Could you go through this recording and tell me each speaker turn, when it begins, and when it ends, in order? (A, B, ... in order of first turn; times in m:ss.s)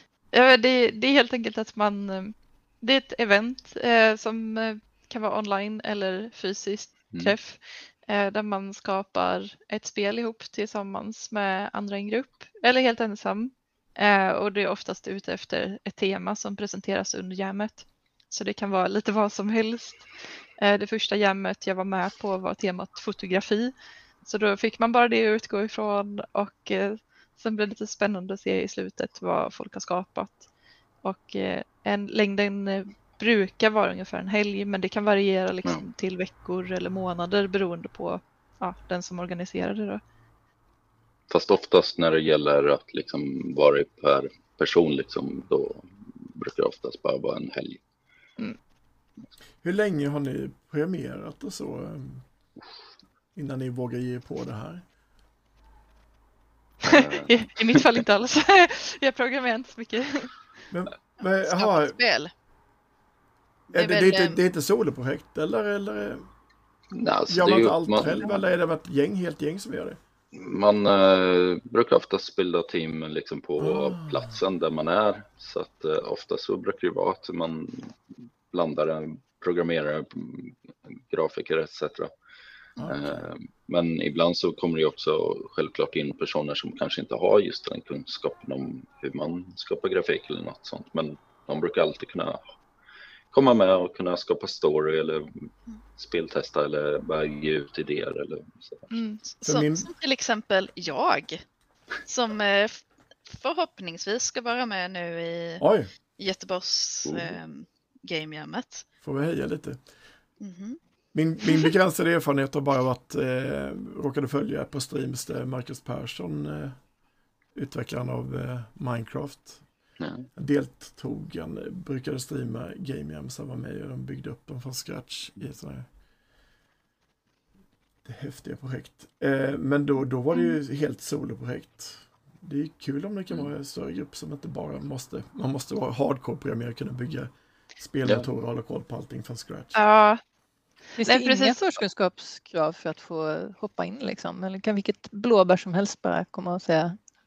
0:00.3-0:20.1 A
0:20.6-0:30.5 A
0:31.0-0:40.0 A
0:41.3-0:47.8 B
0:49.6-0:52.2 C
0:53.3-0:54.8 C
0:56.8-1:00.3 A
0:56.8-0:57.8 B
1:00.7-1:02.0 C
1:01.2-1:02.3 D
1:03.7-1:04.4 D
1:03.7-1:06.3 C
1:06.9-1:08.2 B
1:07.3-1:10.0 C
1:10.3-1:18.0 B
1:13.6-1:14.4 C
1:18.5-1:22.1 B
1:22.8-1:23.3 C
1:22.8-1:32.4 B
1:33.3-1:38.9 B
1:38.9-1:39.2 A
1:39.3-1:41.4 D
1:39.4-1:39.9 C
1:42.0-1:45.6 D
1:45.6-1:45.9 C
1:46.2-1:48.8 D
1:47.1-1:47.4 B
1:49.0-1:49.8 C
1:50.4-1:50.8 D
1:51.1-1:56.8 C
1:51.4-1:51.7 D
1:57.5-1:59.6 C
2:00.0-2:00.3 B
2:00.4-2:05.9 C
2:08.0-2:19.7 C
2:19.7-2:20.2 A
2:21.0-2:27.0 E
2:21.0-2:21.6 A